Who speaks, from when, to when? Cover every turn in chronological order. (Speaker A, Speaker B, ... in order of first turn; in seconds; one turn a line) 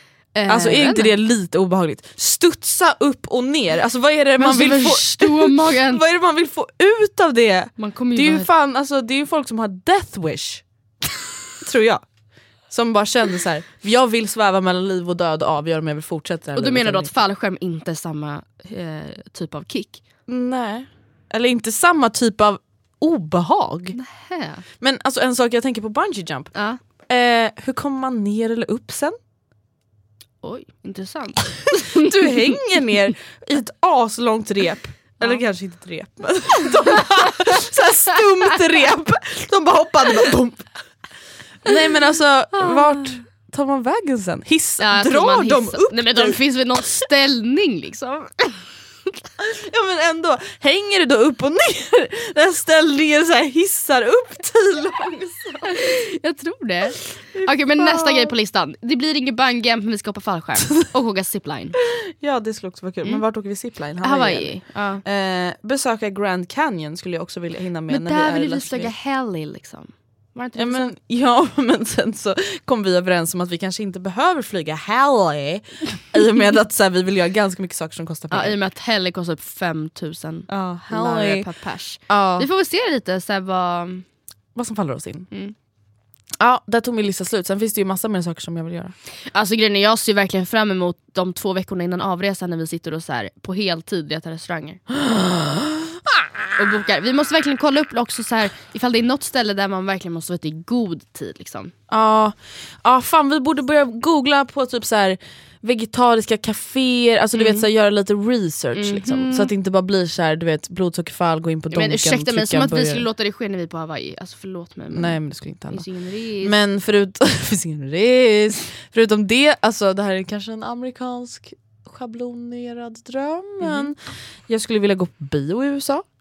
Speaker A: 0.3-1.1
Speaker B: 0.5-10.6
Speaker A: 4.4-6.0
Speaker A: 7.8-8.5
Speaker B: 11.6-12.0
Speaker B: 12.7-17.1
Speaker A: 16.5-20.0
Speaker B: 20.3-24.0
Speaker A: 23.9-24.6
Speaker B: 24.8-26.5
Speaker B: 27.1-29.2
Speaker A: 30.4-32.5
Speaker B: 31.9-40.7
Speaker A: 35.2-35.4
Speaker B: 41.6-46.4
Speaker A: 42.6-43.0
Speaker A: 44.8-48.6
Speaker B: 49.4-55.7
Speaker A: 55.6-61.8
Speaker B: 57.3-58.3
Speaker B: 61.8-68.9
Speaker A: 64.0-65.0
Speaker A: 67.9-70.9
Speaker B: 70.5-78.6
Speaker A: 78.3-84.0
Speaker B: 80.5-81.5
Speaker B: 82.1-82.5
Speaker B: 84.5-85.3
Speaker B: 86.4-88.9
Speaker A: 89.3-94.8
Speaker B: 94.9-96.5
Speaker A: 96.5-101.7
Speaker B: 101.9-113.0
Speaker A: 107.3-107.7
Speaker A: 108.7-109.5
Speaker A: 111.7-116.6
Speaker B: 114.9-115.8
Speaker B: 116.4-126.0
Speaker A: 123.6-123.9